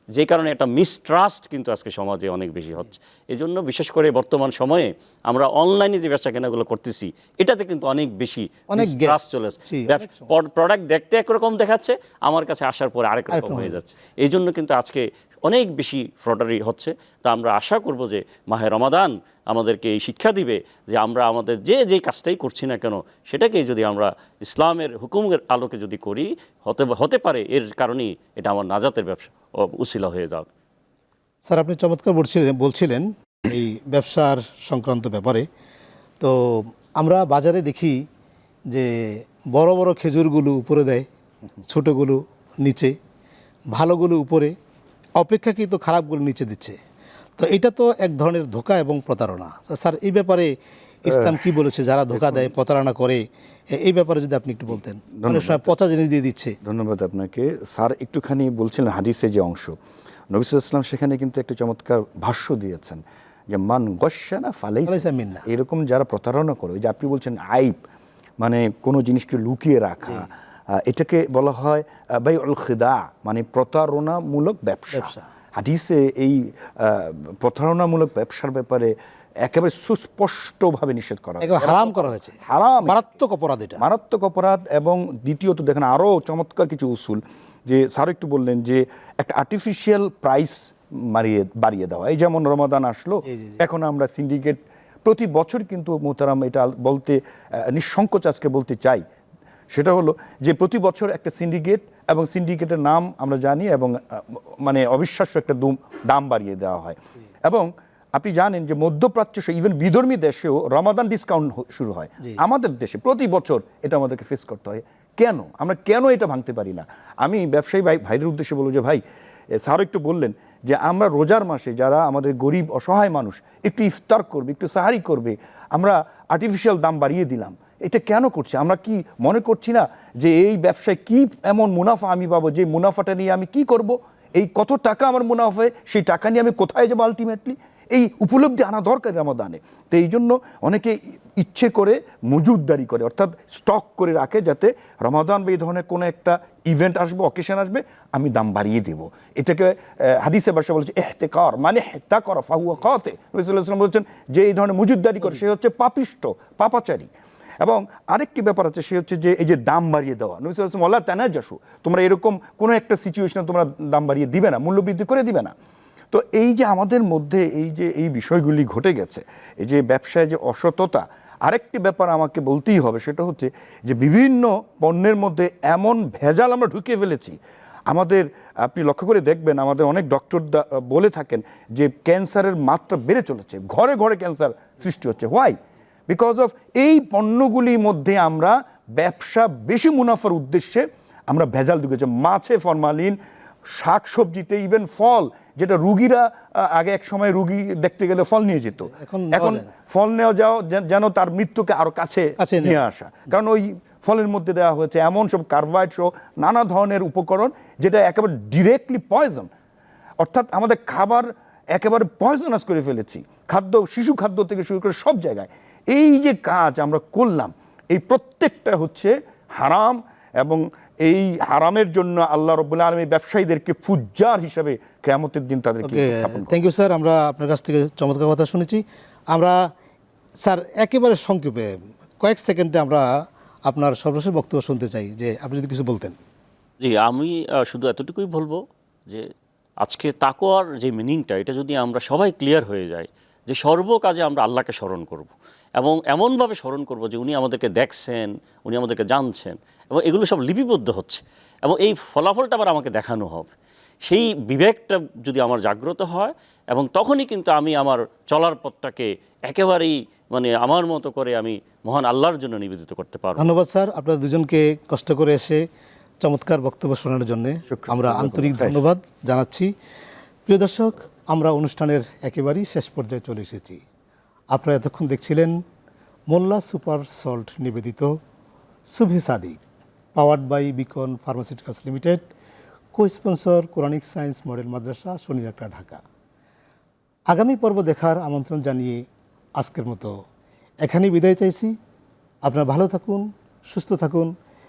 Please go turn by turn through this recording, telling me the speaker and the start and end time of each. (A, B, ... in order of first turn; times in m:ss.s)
0:00.1-0:09.5 A
0:08.7-0:10.3 B
0:10.0-0:30.4 A
0:13.3-0:13.8 B
0:31.4-0:35.5 B
0:36.2-0:38.0 B
0:38.7-0:41.0 B
0:41.6-0:43.0 B
0:43.7-0:44.5 B
0:45.2-0:46.8 B
0:47.4-0:50.5 B
0:51.0-0:56.6 B
0:51.0-0:51.4 C
0:52.1-0:52.5 C
0:55.2-0:55.7 C
0:56.6-0:59.7 C
1:00.3-1:07.8 C
1:04.8-1:05.4 B
1:08.4-1:23.0 C
1:14.9-1:15.2 B
1:21.4-1:23.8 B
1:23.8-1:39.0 C
1:33.3-1:33.6 B
1:39.7-1:59.0 C
1:59.6-2:37.1 C
2:37.6-2:45.5 C
2:46.1-2:57.4 C
2:57.9-3:05.6 C
3:06.1-3:13.2 C
3:13.7-3:29.5 C
3:18.9-3:19.7 B
3:22.4-3:22.7 B
3:30.2-3:46.6 C
3:45.8-3:49.6 B
3:50.4-3:53.0 B
3:53.6-3:56.2 B
3:56.8-3:58.5 A
3:59.8-4:13.4 A
4:14.0-4:23.4 A
4:23.4-4:25.6 B
4:26.2-4:29.7 B
4:27.7-4:28.8 C
4:30.5-4:33.8 B
4:34.5-4:35.6 B
4:36.3-4:38.1 B
4:38.9-4:39.6 B
4:40.1-4:42.3 B
4:42.9-4:46.0 B
4:47.3-4:49.0 B
4:49.6-4:50.2 B
4:50.8-4:51.7 B
4:52.4-4:54.3 B